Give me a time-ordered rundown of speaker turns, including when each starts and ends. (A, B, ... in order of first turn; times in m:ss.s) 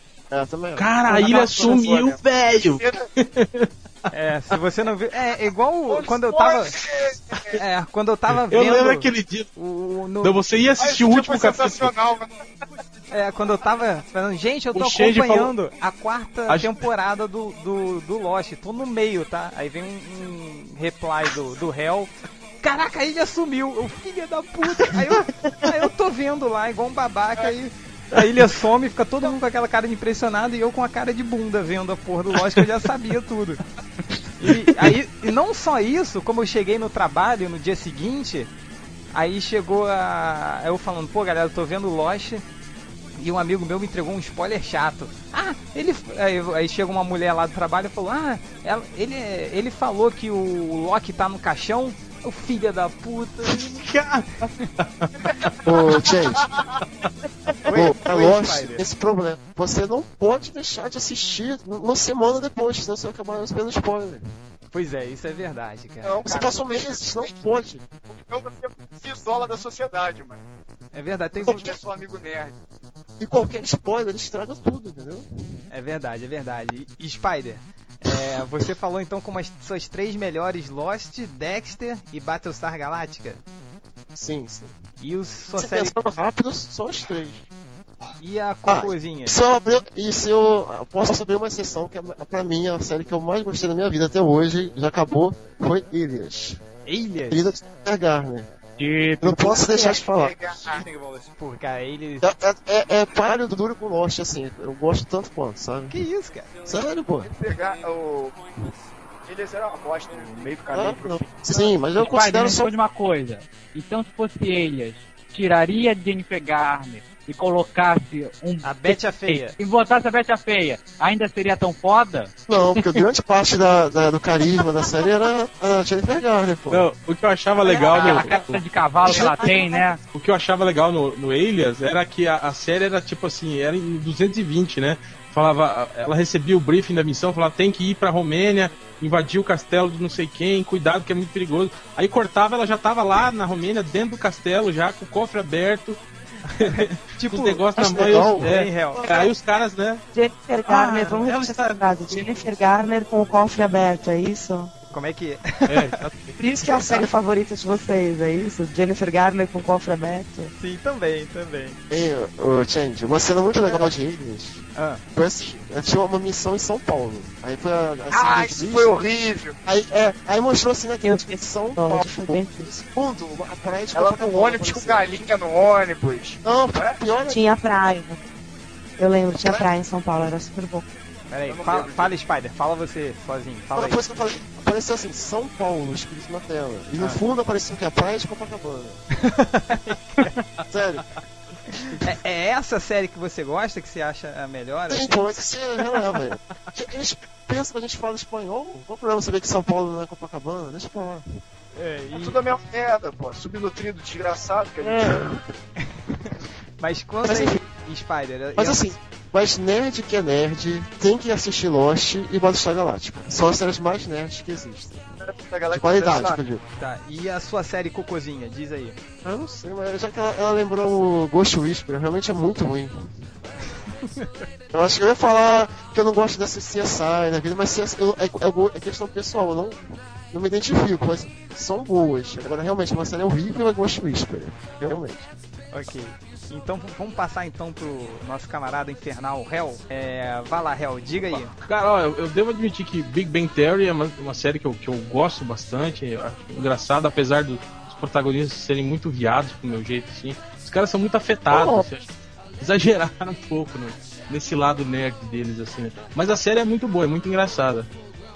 0:00.3-0:01.7 A
0:00.8-0:03.7 B
0:01.1-0:03.0 C
0:04.1-0:06.8 D
0:05.9-0:07.6 C
0:07.5-0:10.5 D
0:08.5-0:09.5 B
0:10.2-0:11.9 B
0:10.8-0:12.3 C
0:13.1-0:33.6 D
0:14.7-0:15.5 B
0:16.5-0:16.8 B
0:34.4-0:38.5 D
0:39.1-0:42.4 D
0:43.2-0:53.8 D
0:53.5-0:55.5 B
0:55.6-0:56.5 A
0:57.6-0:58.8 D
0:57.7-1:04.2 A
1:04.7-1:06.2 D
1:06.0-1:07.4 C
1:06.2-1:07.8 A
1:08.1-1:10.4 C
1:10.9-1:11.7 D
1:11.5-1:12.6 C
1:13.2-1:15.2 A
1:15.7-1:23.4 D
1:24.1-1:24.7 A
1:25.0-1:26.0 D
1:25.6-1:27.4 A
1:28.2-1:29.4 D
1:28.7-1:36.6 A
1:36.8-1:37.6 D
1:37.3-1:38.5 A
1:38.8-1:39.6 E
1:39.2-1:40.4 A
1:39.6-1:40.8 C
1:40.6-1:42.3 D
1:42.2-1:46.0 A
1:45.9-1:46.5 D
1:46.6-1:47.3 A
1:47.2-1:48.4 C
1:49.2-1:51.8 C
1:50.7-1:52.7 A
1:52.0-2:02.3 E
1:58.6-1:59.5 D
2:02.5-2:06.9 A
2:06.7-2:08.6 B
2:07.6-2:08.2 F
2:07.8-2:10.0 E
2:09.0-2:09.8 F
2:10.1-2:26.0 B
2:26.5-2:29.0 D
2:26.6-2:30.0 B
2:27.8-2:28.6 A
2:30.1-2:34.7 F
2:30.6-2:32.3 B
2:34.9-2:36.0 D
2:35.6-2:36.4 B
2:36.4-2:40.5 F
2:40.6-2:41.8 D
2:41.9-2:49.0 A
2:43.6-2:43.9 C
2:44.8-2:45.0 D
2:48.1-2:49.6 C
2:49.6-2:55.2 A
2:51.0-2:52.8 F
2:53.9-2:57.0 C
2:56.4-2:57.4 A
2:57.3-2:58.2 F
2:59.0-3:00.8 F
3:01.3-3:04.0 D
3:01.4-3:02.1 C
3:03.7-3:09.0 A
3:09.2-3:10.3 D
3:10.7-3:11.0 A
3:11.9-3:15.2 D
3:14.9-3:21.2 A
3:21.7-3:22.4 D
3:22.1-3:25.2 C
3:24.8-3:25.5 A
3:26.2-3:28.9 D
3:27.2-3:27.6 A
3:28.6-3:35.0 A
3:35.2-3:36.4 C
3:35.7-3:36.6 A
3:36.8-3:39.0 D
3:39.2-3:42.9 A
3:44.0-3:44.4 D
3:44.7-3:55.3 A
3:55.7-4:01.5 D
4:01.5-4:12.1 B
4:11.5-4:11.8 A
4:12.6-4:17.9 B